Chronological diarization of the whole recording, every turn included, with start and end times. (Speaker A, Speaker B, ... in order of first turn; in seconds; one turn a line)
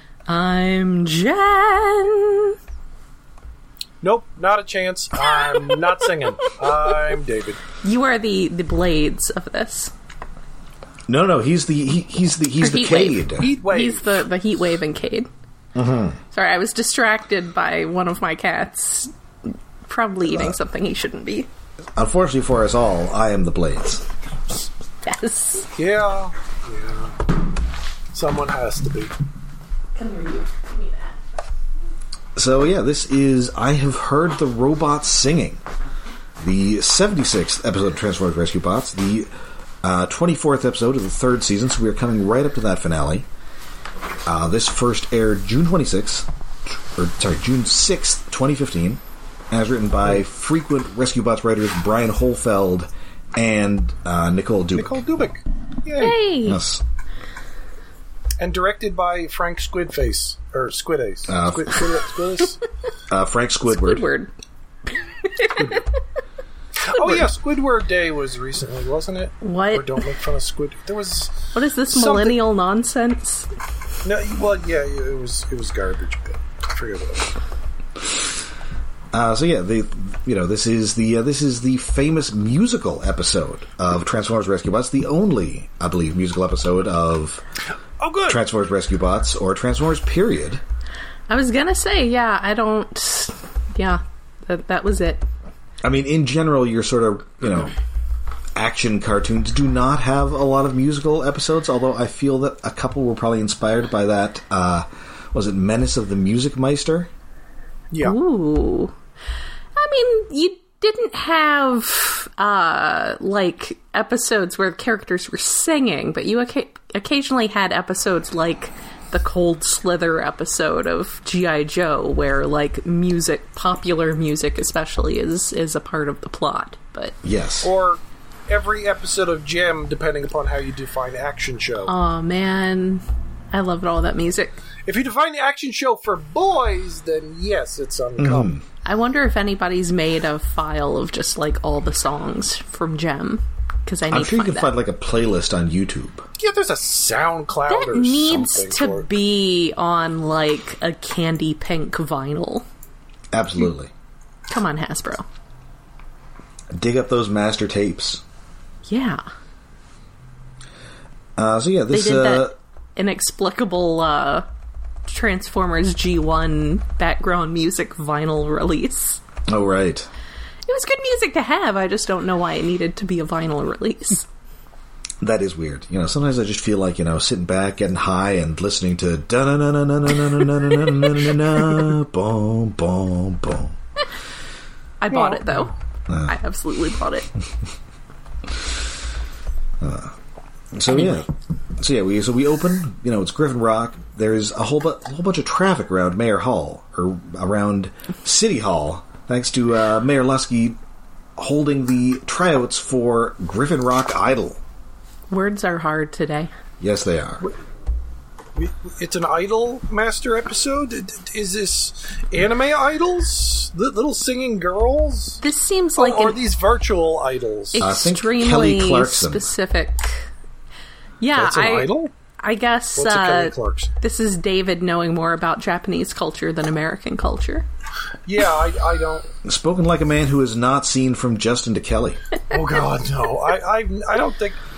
Speaker A: 0.3-2.6
Speaker B: 4.0-7.6
Speaker A: 5.2-5.8
Speaker A: 7.8-9.9
Speaker C: 11.1-13.5
Speaker A: 12.6-15.3
Speaker B: 13.4-14.0
Speaker C: 15.7-16.2
Speaker A: 16.3-19.1
Speaker A: 19.9-21.5
Speaker C: 21.9-24.1
Speaker A: 25.0-25.7
Speaker B: 25.8-27.2
Speaker B: 28.1-29.1
Speaker A: 29.9-31.1
Speaker C: 32.4-35.6
Speaker C: 36.4-39.3
Speaker C: 39.8-43.3
Speaker C: 44.2-54.9
Speaker B: 54.8-56.2
Speaker A: 56.0-56.6
Speaker C: 56.4-56.8
Speaker B: 58.4-62.6
Speaker C: 61.3-61.8
Speaker C: 63.1-64.1
Speaker A: 63.7-64.3
Speaker A: 65.2-65.8
Speaker B: 65.5-65.8
Speaker B: 66.8-72.4
Speaker A: 66.8-67.2
Speaker A: 69.4-70.0
Speaker A: 71.5-73.5
Speaker B: 74.0-77.3
Speaker C: 79.1-87.4
Speaker B: 88.0-88.4
Speaker C: 88.3-90.6
Speaker A: 91.3-95.2
Speaker C: 95.8-97.7
Speaker C: 98.5-107.1
Speaker B: 107.9-108.2
Speaker A: 108.0-108.9
Speaker A: 109.7-127.2
Speaker C: 127.2-127.7
Speaker B: 127.6-131.9
Speaker A: 131.8-134.6
Speaker B: 134.8-138.5
Speaker C: 138.2-138.6
Speaker A: 138.8-144.7
Speaker C: 144.1-146.3
Speaker B: 146.4-149.1
Speaker A: 147.7-152.7
Speaker C: 153.3-153.9
Speaker A: 154.5-155.2
Speaker C: 156.7-158.2
Speaker A: 158.8-159.2
Speaker C: 161.4-162.5
Speaker A: 161.9-164.5
Speaker A: 165.1-169.2
Speaker C: 169.5-170.1
Speaker A: 170.7-174.2
Speaker C: 175.2-183.8
Speaker A: 185.0-187.3
Speaker B: 185.1-185.6
Speaker C: 189.8-190.1
Speaker C: 190.7-200.8
Speaker A: 190.9-191.2
Speaker C: 201.4-204.6
Speaker A: 205.3-206.5
Speaker C: 206.8-207.4
Speaker B: 208.6-215.4
Speaker A: 215.4-216.4
Speaker B: 216.0-217.8
Speaker A: 217.7-220.3
Speaker C: 217.8-219.5
Speaker A: 221.2-227.7
Speaker B: 221.3-222.1
Speaker B: 222.9-223.9
Speaker B: 228.2-229.3
Speaker C: 229.4-232.2
Speaker B: 232.5-234.6